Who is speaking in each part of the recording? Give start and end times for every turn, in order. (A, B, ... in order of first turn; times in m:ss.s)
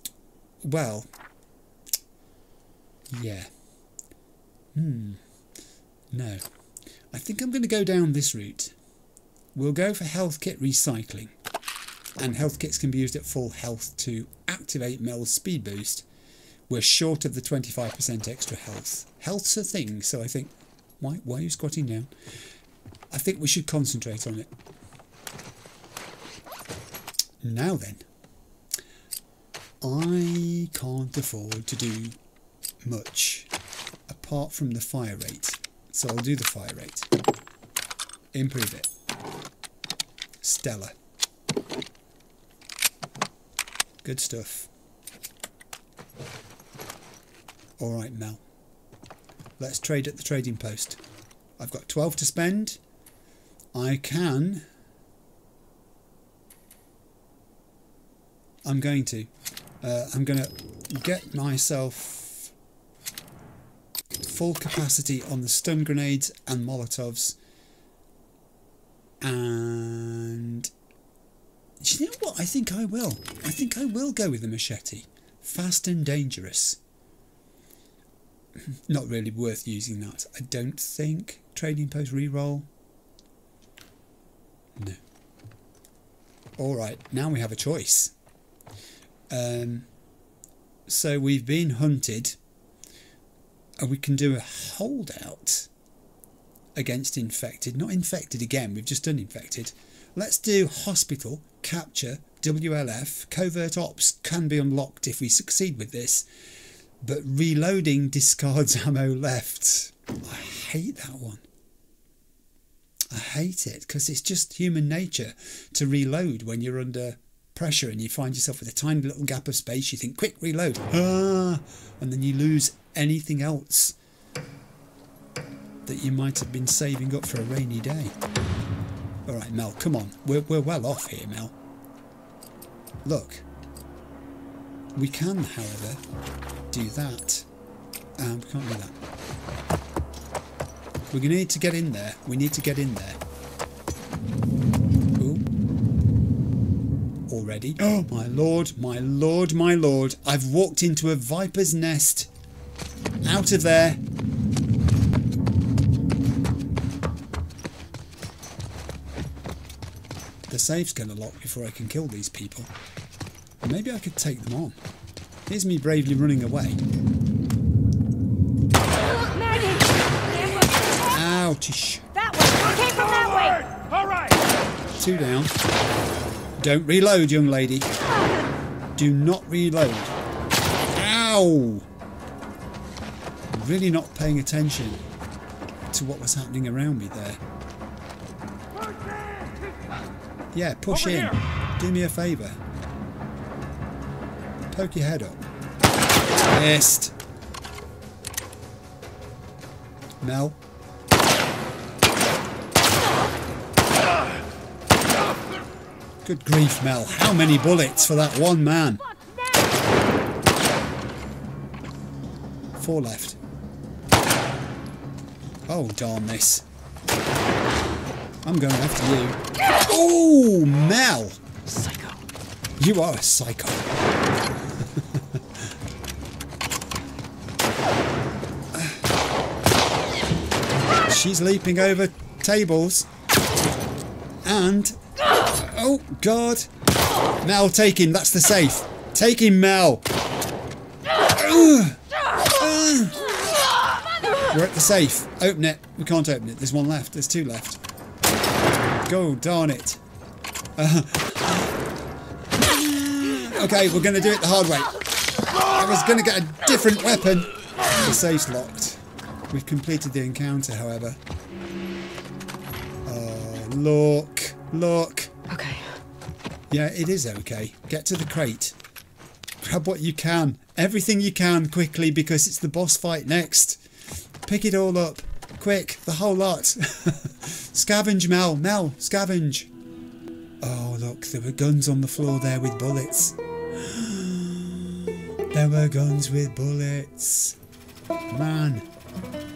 0:00.6-0:01.1 A
0:03.1-0:03.5 A
0:04.8-0:05.2 A
0:06.1-0:06.4 A
0:07.1-0:08.8 A
0:09.6-0:11.3 A
0:12.2-0:16.1 A
0:16.7-0:22.1 A
0:23.1-0:24.5 A
0:27.4-0:28.0 A
0:29.8-0:32.2 A
0:32.8-0:33.5 A
0:34.1-0:37.1 A
0:38.3-0:38.9 A
0:40.4-0:40.9 A
0:44.0-0:44.7 A
0:47.8-0:48.4 A
0:49.6-0:51.0 A
0:51.6-0:52.8 A
0:53.7-0:54.6 A
0:58.6-0:59.3 A
0:59.8-1:02.5 A
1:04.2-1:07.4 A
1:09.2-1:10.7 A
1:11.8-1:16.8 A
1:18.7-1:22.7 A
1:26.6-1:28.1 A
1:29.3-1:29.9 A
1:30.9-1:32.4 A
1:33.8-1:35.7 A
1:36.8-1:46.3 A
1:47.0-1:51.4 A
1:53.1-2:04.0 A
2:05.9-2:08.2 A
2:09.3-2:11.5 A
2:13.0-2:13.4 A
2:15.0-2:16.0 A
2:16.7-2:17.5 A
2:18.2-2:19.0 A
2:21.1-2:23.2 A
2:25.2-2:25.4 A
2:27.3-2:32.3 A
2:33.2-2:34.0 A
2:40.5-2:42.7 A
2:43.6-2:44.8 A
2:45.5-2:46.8 A
2:48.9-2:51.2 B
2:51.1-2:52.1 A
2:52.1-2:53.7 B
2:53.4-2:54.4 C
2:55.0-2:55.6 A
2:56.6-2:57.9 A
2:59.0-3:00.2 A
3:00.9-3:01.9 A
3:03.5-3:05.0 A
3:05.9-3:07.4 A
3:08.9-3:09.6 C
3:10.5-3:12.6 A
3:10.9-3:11.3 C
3:14.7-3:15.4 A
3:16.5-3:17.2 A
3:20.2-3:20.6 A
3:26.2-3:29.0 A
3:32.8-3:33.4 A
3:35.7-3:36.6 A
3:38.4-3:41.4 A
3:41.7-3:42.2 B
3:42.8-3:44.0 A
3:44.8-3:45.4 A
3:48.7-3:49.0 A
3:51.1-3:53.1 A
3:54.4-3:56.7 A
3:57.4-4:00.1 A
4:01.2-4:03.4 A
4:04.5-4:07.8 A
4:09.0-4:10.0 A
4:10.8-4:11.8 A
4:12.6-4:15.0 A
4:15.6-4:21.2 A
4:23.0-4:25.3 A
4:25.5-4:26.0 B
4:26.7-4:28.8 A
4:29.6-4:33.8 A
4:34.4-4:39.7 A
4:40.6-4:47.6 A
4:48.3-4:48.9 A